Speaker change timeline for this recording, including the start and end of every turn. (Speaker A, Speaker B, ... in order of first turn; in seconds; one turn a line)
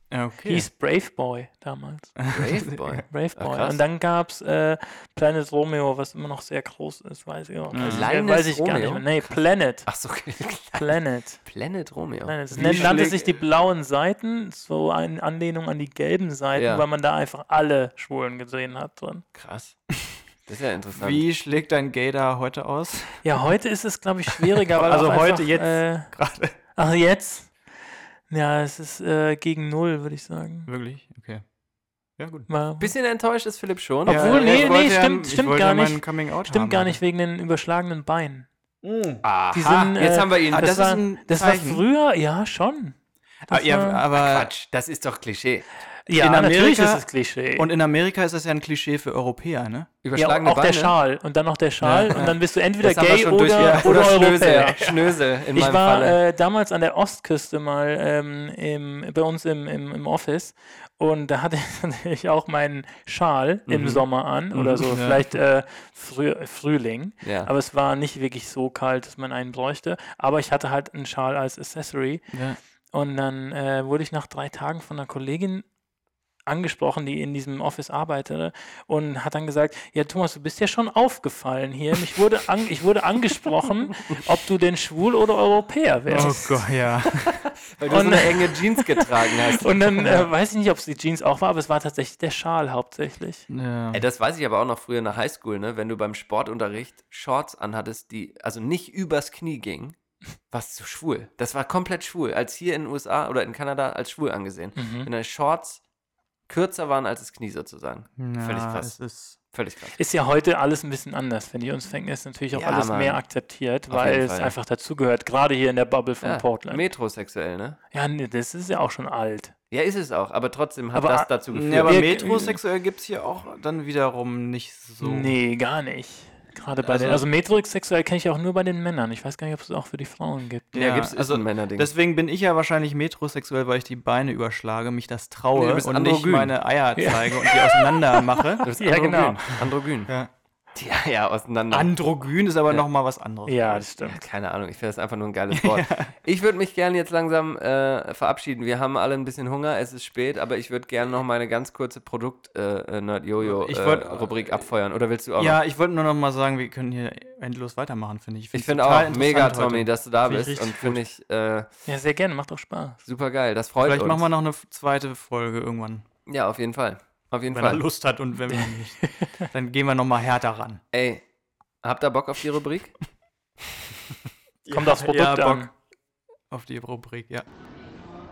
Speaker A: 0.1-0.7
Speaker B: 0.4-2.2
Speaker A: 2.2-3.0
Speaker C: 2.3-3.8
Speaker B: 3.1-9.9
Speaker A: 7.7-8.1
Speaker C: 7.8-10.9
Speaker B: 10.7-11.4
Speaker C: 11.4-13.2
Speaker B: 12.2-19.2
Speaker A: 12.5-13.4
Speaker C: 16.6-16.8
Speaker C: 19.4-19.9
Speaker C: 20.5-21.2
Speaker A: 20.9-23.2
Speaker B: 23.2-26.1
Speaker A: 24.6-26.6
Speaker B: 26.8-27.6
Speaker B: 28.3-30.7
Speaker A: 30.7-31.4
Speaker A: 32.2-32.5
Speaker B: 32.5-32.9
Speaker C: 32.8-34.8
Speaker A: 34.1-37.0
Speaker B: 34.1-38.5
Speaker A: 38.8-39.2
Speaker C: 39.2-40.8
Speaker B: 39.5-44.0
Speaker A: 40.5-41.8
Speaker A: 43.5-44.5
Speaker C: 44.2-45.7
Speaker B: 46.1-47.7
Speaker A: 46.1-47.0
Speaker A: 47.6-49.9
Speaker C: 50.0-50.9
Speaker B: 50.1-55.0
Speaker A: 51.8-52.3
Speaker C: 52.1-56.2
Speaker A: 53.6-54.1
Speaker B: 55.5-72.3
Speaker C: 63.7-64.0
Speaker C: 64.5-64.9
Speaker A: 64.9-65.3
Speaker C: 67.2-67.5
Speaker A: 72.3-72.6
Speaker B: 72.9-75.7
Speaker B: 76.5-86.7
Speaker A: 86.1-87.3
Speaker C: 87.2-89.8
Speaker B: 87.9-89.0
Speaker B: 89.6-93.5
Speaker A: 90.0-90.3
Speaker A: 93.5-94.0
Speaker C: 93.9-100.0
Speaker C: 100.5-105.8
Speaker B: 104.8-105.1
Speaker C: 106.5-108.9
Speaker A: 108.2-109.4
Speaker C: 109.5-110.0
Speaker B: 110.0-116.8
Speaker C: 112.5-113.2
Speaker C: 113.9-114.5
Speaker C: 116.2-117.8
Speaker B: 117.9-119.5
Speaker C: 119.7-122.0
Speaker B: 120.9-121.3
Speaker A: 121.5-125.4
Speaker B: 121.8-122.6
Speaker B: 125.0-130.7
Speaker C: 126.9-127.2
Speaker A: 130.7-138.7
Speaker C: 130.7-131.9
Speaker C: 135.5-136.6
Speaker B: 137.0-139.4
Speaker C: 138.6-140.1
Speaker C: 140.8-141.9
Speaker A: 141.7-143.9
Speaker B: 143.5-144.2
Speaker C: 144.0-155.6
Speaker A: 145.5-146.1
Speaker A: 153.4-154.7
Speaker A: 155.4-160.8
Speaker C: 158.5-161.7
Speaker B: 160.3-160.9
Speaker B: 161.9-163.0
Speaker C: 163.1-164.3
Speaker A: 163.8-166.1
Speaker C: 166.3-167.8
Speaker A: 167.5-170.8
Speaker B: 169.0-169.3
Speaker C: 170.9-171.2
Speaker C: 171.8-172.9
Speaker A: 174.7-175.7
Speaker B: 174.7-175.7
Speaker A: 176.5-177.4